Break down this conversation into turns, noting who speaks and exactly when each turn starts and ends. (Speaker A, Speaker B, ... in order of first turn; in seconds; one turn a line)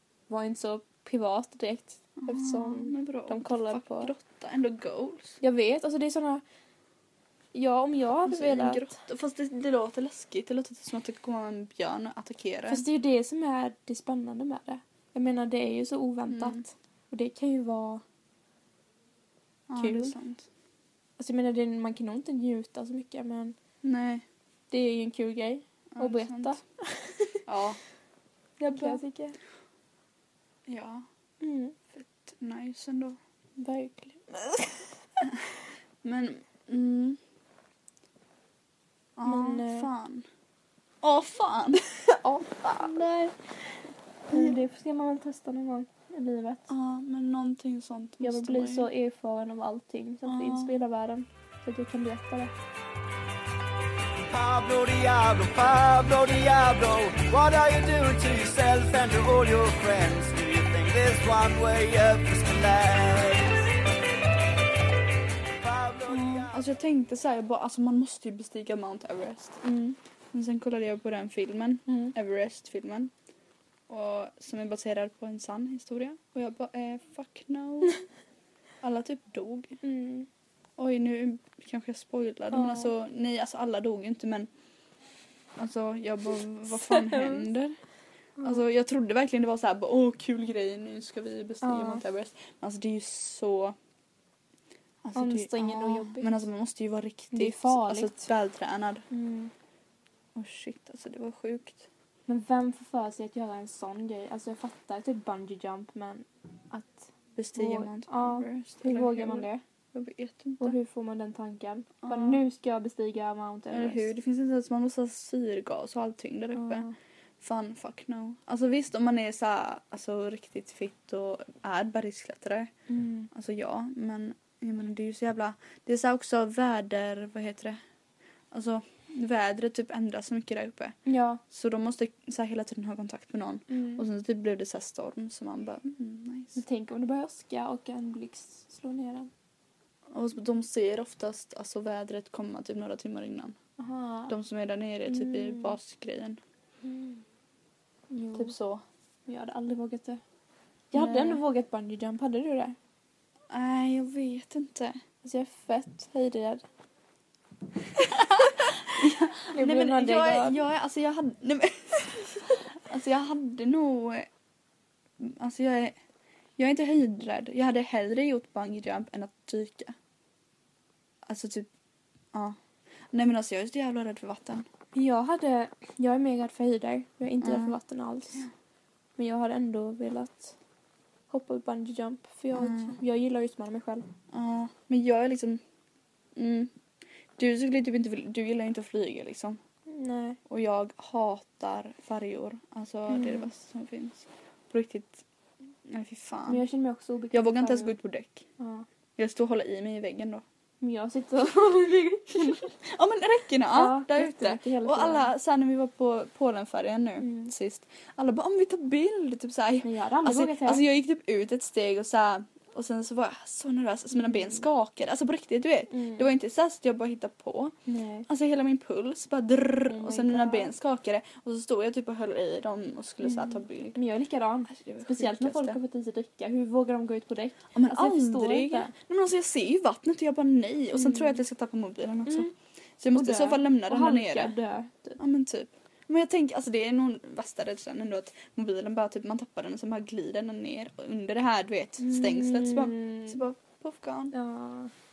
Speaker A: 0.3-4.1
Speaker B: 2.2-5.4
Speaker A: 5.4-6.4
Speaker A: 7.5-8.9
Speaker B: 8.2-12.9
Speaker A: 12.7-18.0
Speaker B: 16.3-16.6
Speaker B: 19.7-20.5
Speaker A: 19.8-20.2
Speaker A: 21.2-23.6
Speaker B: 23.8-24.2
Speaker A: 24.7-27.4
Speaker B: 25.9-26.6
Speaker B: 27.5-27.8
Speaker A: 28.6-29.4
Speaker B: 28.7-29.0
Speaker B: 30.7-31.1
Speaker A: 31.4-31.8
Speaker B: 31.9-33.2
Speaker A: 33.6-34.9
Speaker B: 36.0-37.2
Speaker B: 39.2-40.3
Speaker A: 39.2-39.9
Speaker B: 41.0-41.9
Speaker A: 42.1-43.0
Speaker B: 42.5-43.4
Speaker A: 44.3-46.7
Speaker B: 44.3-44.6
Speaker B: 46.7-48.9
Speaker A: 48.2-52.5
Speaker B: 50.2-50.8
Speaker C: 54.2-63.7
Speaker C: 65.6-66.5
Speaker B: 66.1-69.6
Speaker A: 69.6-70.0
Speaker B: 70.3-73.1
Speaker A: 71.9-72.1
Speaker B: 73.9-78.0
Speaker B: 78.8-79.8
Speaker A: 79.8-80.3
Speaker B: 80.8-84.5
Speaker A: 82.5-82.9
Speaker B: 85.6-87.8
Speaker A: 86.7-87.5
Speaker A: 88.4-88.6
Speaker B: 88.4-93.8
Speaker A: 91.6-92.0
Speaker B: 95.0-99.0
Speaker A: 95.2-96.5
Speaker A: 97.3-98.3
Speaker A: 99.1-99.5
Speaker B: 100.3-101.9
Speaker A: 102.3-109.6
Speaker B: 107.4-110.8
Speaker A: 110.6-114.1
Speaker B: 112.0-112.4
Speaker B: 113.7-116.9
Speaker A: 116.5-117.0
Speaker B: 117.4-122.7
Speaker A: 122.9-123.3
Speaker B: 123.3-127.8
Speaker B: 128.5-131.0
Speaker A: 131.1-131.4
Speaker B: 131.5-136.6
Speaker A: 133.7-134.1
Speaker A: 136.6-139.3
Speaker B: 140.1-143.6
Speaker A: 143.8-144.4
Speaker B: 144.3-146.4
Speaker A: 145.1-145.8
Speaker A: 146.8-147.2
Speaker A: 148.1-148.6
Speaker B: 148.3-148.8
Speaker A: 149.3-150.2
Speaker A: 150.9-152.8
Speaker B: 150.9-151.4
Speaker B: 153.5-155.0
Speaker A: 155.2-156.6
Speaker B: 158.0-164.3
Speaker A: 159.5-160.7
Speaker B: 165.2-166.0
Speaker B: 166.6-169.9
Speaker B: 171.3-171.7
Speaker B: 173.1-174.7
Speaker A: 174.9-178.5
Speaker B: 177.4-177.8
Speaker A: 179.2-180.6
Speaker A: 181.3-184.1
Speaker B: 182.5-183.0
Speaker B: 184.3-185.6
Speaker B: 186.4-186.7
Speaker B: 187.4-189.6
Speaker A: 189.9-190.4
Speaker B: 190.5-195.2
Speaker A: 193.1-193.5
Speaker B: 195.9-196.6
Speaker A: 196.5-197.9
Speaker B: 197.3-198.5
Speaker A: 198.6-198.9
Speaker B: 199.2-200.4
Speaker A: 200.8-202.7
Speaker B: 202.4-217.8
Speaker A: 203.7-205.3
Speaker A: 207.2-207.5
Speaker A: 209.8-210.8
Speaker A: 214.2-214.6
Speaker A: 215.9-216.3
Speaker A: 217.9-218.3
Speaker B: 218.3-224.0
Speaker A: 219.9-220.7
Speaker A: 223.2-228.9
Speaker B: 224.7-225.8
Speaker B: 227.7-234.6
Speaker A: 230.9-231.4
Speaker A: 232.3-232.5
Speaker A: 233.1-235.2
Speaker B: 235.2-244.3
Speaker A: 242.0-243.4
Speaker A: 244.3-244.9